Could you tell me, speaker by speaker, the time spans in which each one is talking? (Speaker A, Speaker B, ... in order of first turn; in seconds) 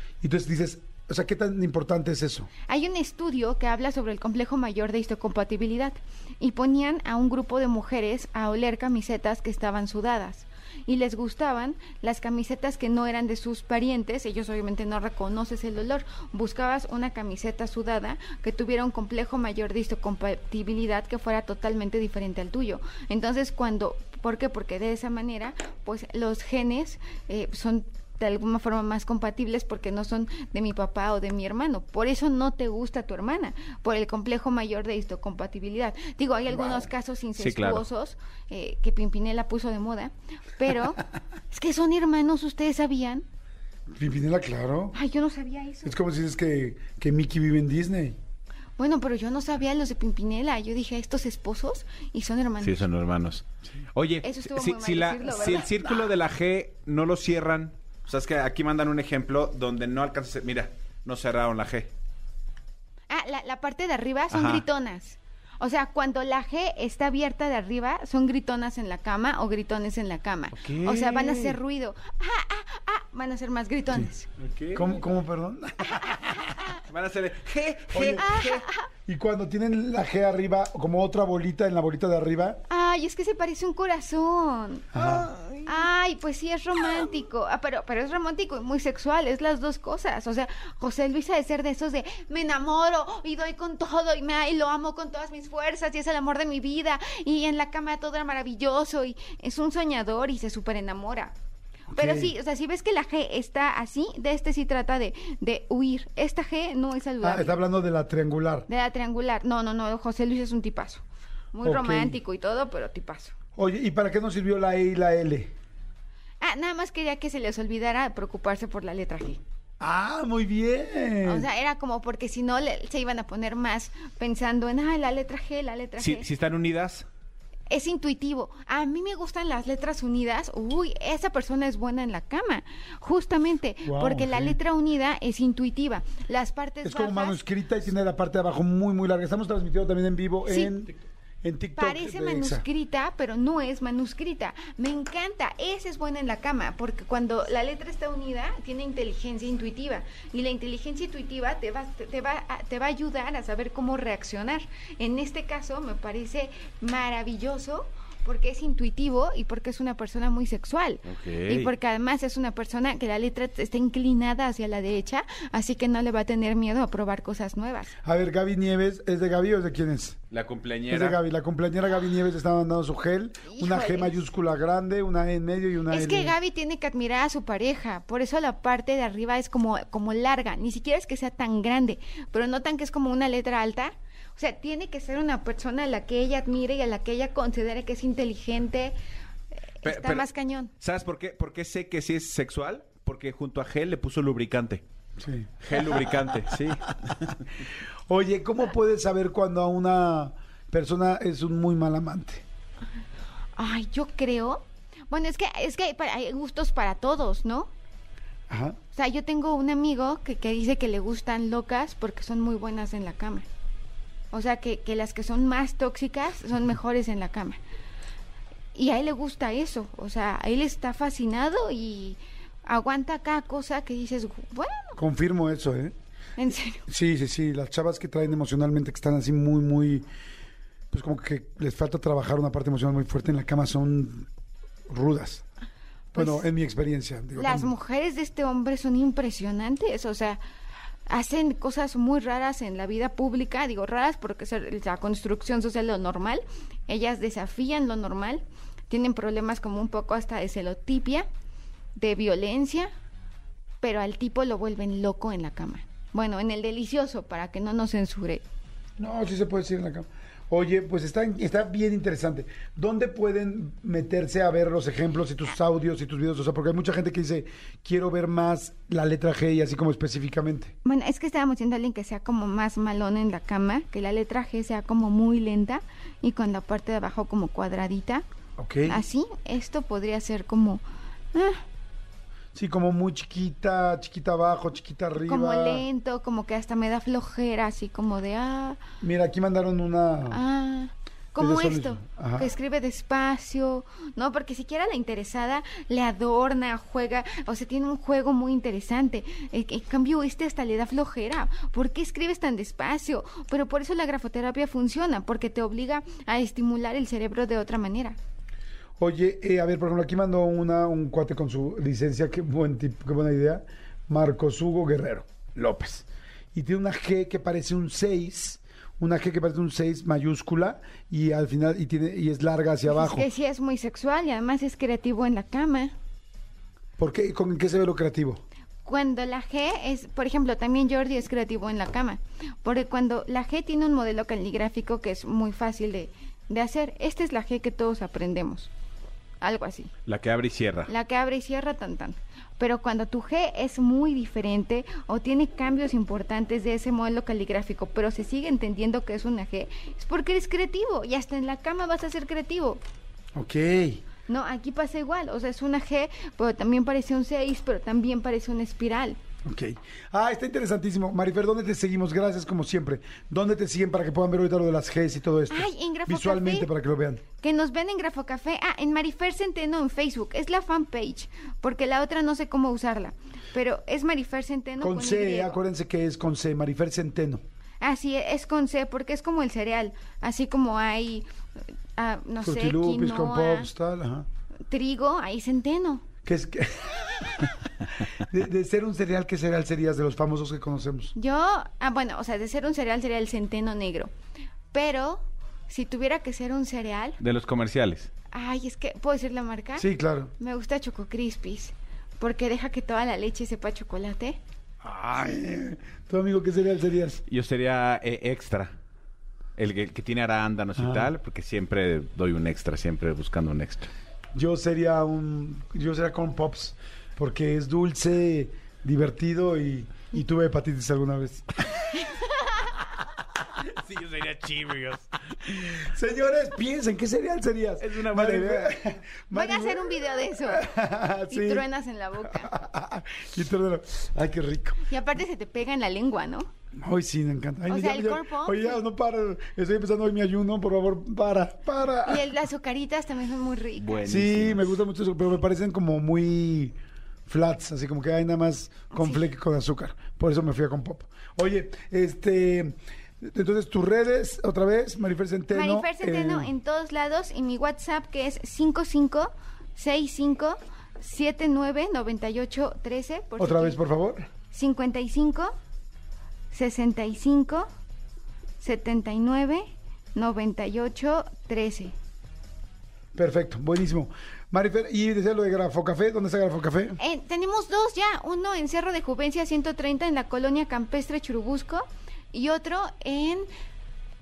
Speaker A: 0.2-2.5, 36.5-36.9, 43.9-45.0, 45.8-48.2, 70.6-71.5, 74.7-76.5, 77.9-78.3, 79.0-82.6, 84.9-85.4, 101.9-102.3, 107.2-108.7, 111.6-112.2, 113.5-115.5, 119.8-121.5, 133.8-134.6, 136.8-142.6, 168.0-170.2, 170.9-176.3, 195.2-196.6, 198.1-202.4, 208.5-208.8, 224.9-225.9, 226.9-230.1, 230.9-234.3, 234.9-235.4, 236.1-237.7, 259.0-270.7, 278.6-279.0, 282.5-285.9, 289.0-290.4, 291.4-292.5, 309.0-323.3, 327.0-328.4, 353.3-354.0, 359.4-367.2, 374.8-377.4, 382.4-384.3, 386.2-391.1, 399.8-400.3, 404.8-407.2, 410.8-411.1, 414.3-421.7, 425.6-431.6, 432.2-434.8, 436.8-442.3, 444.0-446.7, 447.2-456.5, 463.4-464.3, 473.1-477.0
Speaker B: 2.7-43.2, 44.9-46.0, 48.8-52.8, 54.2-55.7, 63.1-74.3, 75.9-76.8, 78.1-78.9, 82.7-101.3, 101.9-107.6, 108.7-113.3, 116.4-119.4, 121.2-126.2, 127.7-137.4, 140.5-140.7, 141.8-167.9, 173.5-174.2, 175.9-188.9, 189.8-190.7, 203.6-207.7, 208.9-213.5, 214.3-217.6, 218.7-225.0, 226.4-226.8, 236.1-236.4, 237.3-240.4, 241.1-251.3, 251.9-252.9, 253.8-258.4, 270.8-278.2, 278.9-280.8, 281.3-281.6, 285.2-288.8, 290.3-308.2, 322.9-325.9, 328.8-338.7, 339.4-339.9, 340.9-352.8, 354.3-359.2, 365.5-366.7, 367.4-375.6, 377.8-381.2, 381.9-383.7, 384.7-386.0, 391.1-394.1, 394.7-397.2, 398.3-399.9, 400.4-404.4, 421.9-422.7, 429.3-430.7, 431.3-432.5, 434.9-436.5, 437.7-438.8, 442.0-444.1, 448.9-449.2, 455.5-463.8, 464.5-465.5, 466.5-467.7, 468.6-471.9, 477.0-483.5
Speaker C: 37.4-37.9, 52.6-61.9, 64.3-64.7, 70.6-71.2, 74.4-75.0, 76.7-78.6, 126.0-127.0, 161.1-161.7, 170.3-171.2, 189.8-190.2, 190.8-194.8, 195.6-197.5, 340.1-340.9, 397.2-398.1, 407.3-408.7, 409.6-413.9, 423.6-425.7, 427.8-428.8, 443.8-444.7